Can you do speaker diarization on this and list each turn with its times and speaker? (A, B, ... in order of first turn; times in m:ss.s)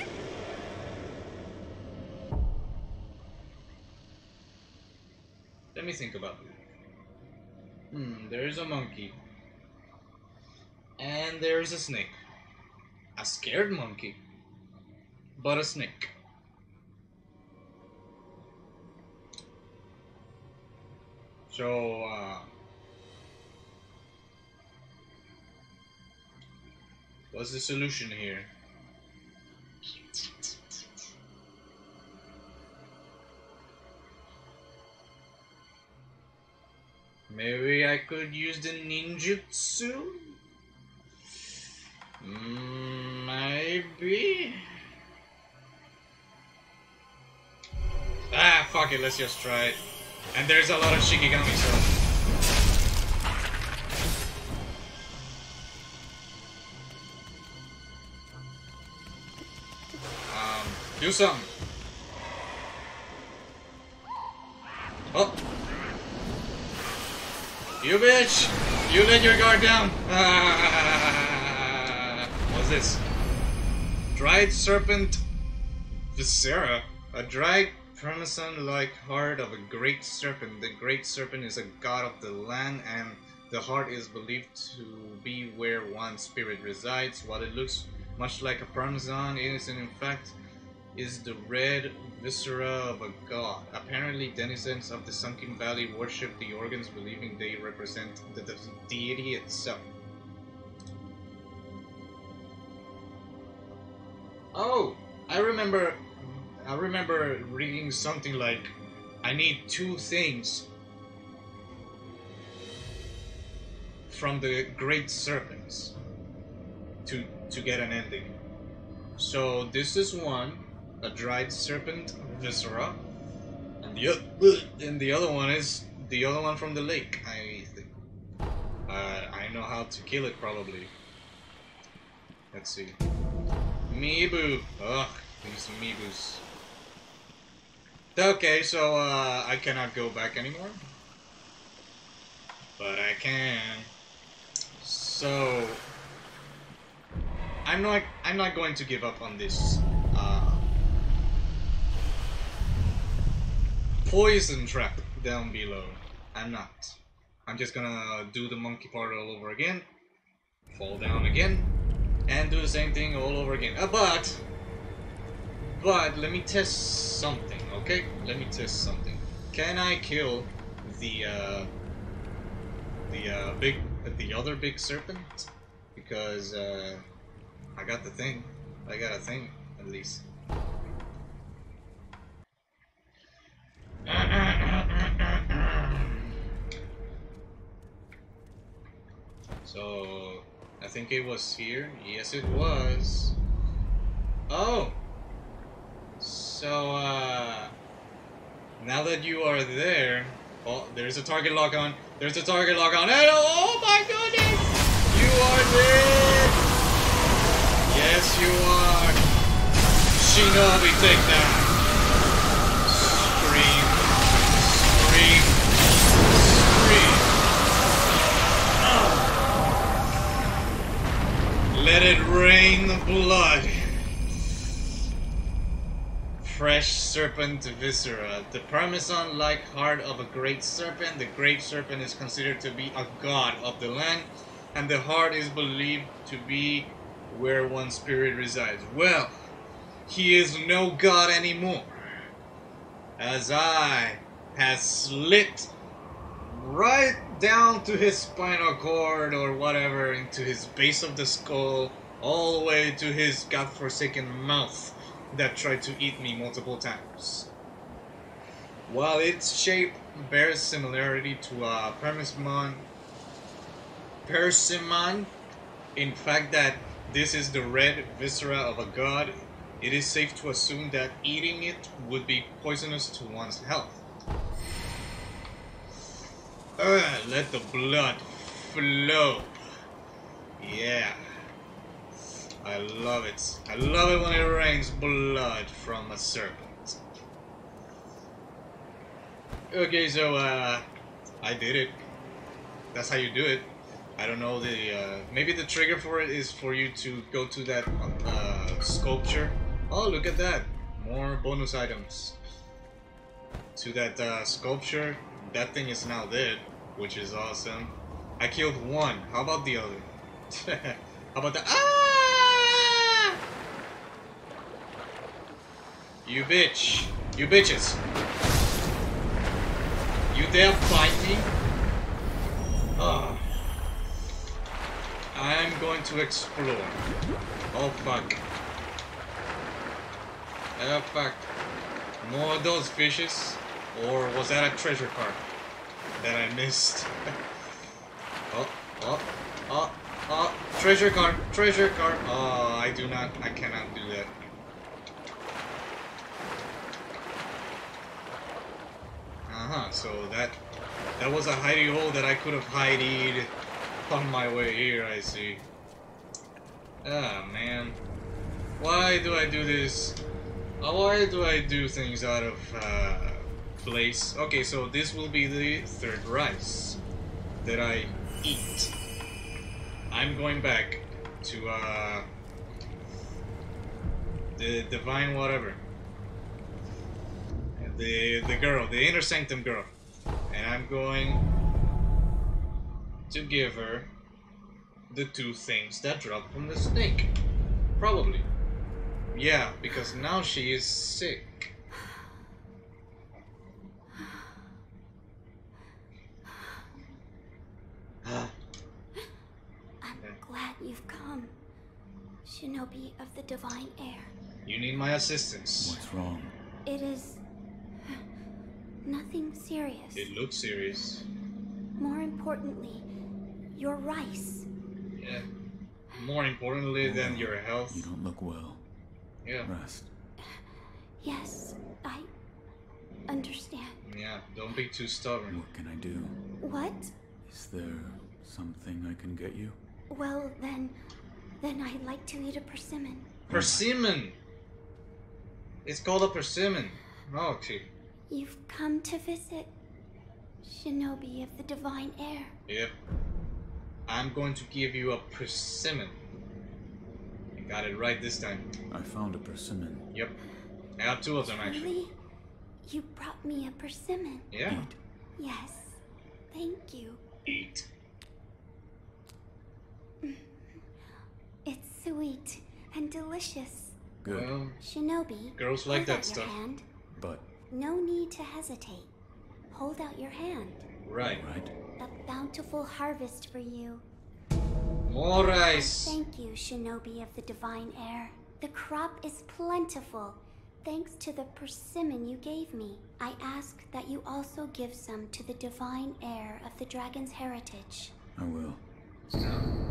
0:05.7-0:06.6 A
0:07.9-0:09.2 A
0:11.0-0:12.2 A
0:13.2-0:14.2 A
0:15.4-0:16.1 A
0:21.5-0:22.5 A
0:27.3-0:28.5 A
0:37.3-0:40.4 A
0:42.2-0:44.7 A
0:48.3-0:49.8 A
0:50.3-0:51.9 A
1:00.3-1:01.5 A
1:05.1-1:05.4 A
1:07.8-1:13.0 A
1:14.1-1:15.2 A
1:16.1-1:30.4 A
1:30.9-1:39.8 A
1:44.5-1:50.7 A
1:54.1-1:56.0 A
1:57.0-1:58.3 A
1:59.2-2:03.0 A
2:03.8-2:07.9 A
2:08.9-2:10.9 A
2:12.5-2:13.0 A
2:13.9-2:16.4 A
2:18.2-2:20.8 A
2:22.8-2:23.9 A
2:24.8-2:25.8 A
2:27.6-2:30.6 A
2:34.0-2:39.8 A
2:40.7-2:41.7 A
2:42.3-2:44.4 A
2:45.6-2:51.7 A
2:53.1-2:57.0 A
2:57.8-3:00.2 A
3:04.0-3:06.3 A
3:09.6-3:13.4 A
3:14.5-3:15.0 A
3:16.2-3:17.7 A
3:18.8-3:26.6 A
3:27.9-3:29.2 A
3:30.1-3:31.8 A
3:32.8-3:37.4 A
3:38.8-3:39.4 A
3:41.7-3:44.0 A
3:46.4-3:59.3 A
4:00.1-4:01.9 A
4:03.2-4:05.7 A
4:06.5-4:17.5 A
4:18.9-4:22.8 A
4:24.2-4:25.3 A
4:26.0-4:34.0 A
4:36.8-4:39.5 A
4:40.6-4:41.2 A
4:42.6-4:47.0 A
4:49.7-4:50.9 A
4:51.4-4:52.0 A
4:52.9-5:02.4 A
5:03.8-5:13.4 A
5:16.2-5:18.0 A
5:20.3-5:21.5 A
5:23.0-5:23.5 A
5:25.3-5:27.0 A
5:27.7-5:28.4 A
5:30.8-5:31.5 A
5:32.2-5:35.4 A
5:36.2-5:37.1 A
5:38.5-5:44.3 A
5:49.5-5:50.6 A
5:51.2-5:53.5 A
5:54.1-5:55.6 A
5:57.0-5:58.0 A
5:58.8-6:00.2 A
6:00.8-6:07.0 A
6:07.6-6:08.9 A
6:10.1-6:12.3 A
6:14.6-6:15.8 A
6:17.8-6:19.9 A
6:20.5-6:21.4 A
6:23.3-6:24.1 A
6:25.1-6:27.3 A
6:28.0-6:28.5 A
6:29.3-6:31.7 A
6:38.2-6:38.5 A
6:40.0-6:41.5 B
6:42.4-6:44.3 B
6:44.6-6:46.0 A
6:45.8-6:46.5 C
6:46.8-6:47.4 B
6:49.0-6:50.3 B
6:50.1-6:51.2 A
6:52.0-6:53.1 B
6:53.7-6:54.7 B
6:55.2-6:55.4 A
6:56.1-6:58.1 A
6:57.0-6:58.8 C
6:59.4-6:59.7 A
6:59.6-7:00.1 C
7:01.2-7:02.3 B
7:03.3-7:04.0 B
7:04.0-7:05.6 A
7:05.5-7:06.4 C
7:06.6-7:07.1 B
7:07.4-7:09.8 C
7:10.1-7:11.0 B
7:11.6-7:13.4 B
7:13.5-7:13.9 C
7:13.5-7:14.4 A
7:15.8-7:17.9 A
7:18.3-7:19.7 B
7:20.6-7:22.5 B
7:22.7-7:22.9 A
7:24.1-7:26.2 A
7:27.5-7:28.7 A
7:28.9-7:30.1 C
7:31.0-7:31.9 A
7:31.4-7:32.2 B
7:32.8-7:34.5 B
7:34.5-7:34.8 A
7:34.6-7:35.0 C
7:35.4-7:37.4 B
7:37.4-7:37.8 A
7:41.6-7:44.1 B
7:44.2-7:44.6 C
7:44.2-7:44.8 A
7:44.8-7:46.8 B
7:45.6-7:46.6 A
7:47.1-7:47.4 C
7:47.7-7:49.1 B
7:49.7-7:50.8 B
7:51.0-7:51.4 A
7:51.2-7:51.7 C
7:52.0-7:54.0 B
7:55.1-7:56.2 A
7:55.3-8:08.1 B
8:08.4-8:08.8 C
8:09.4-8:09.7 A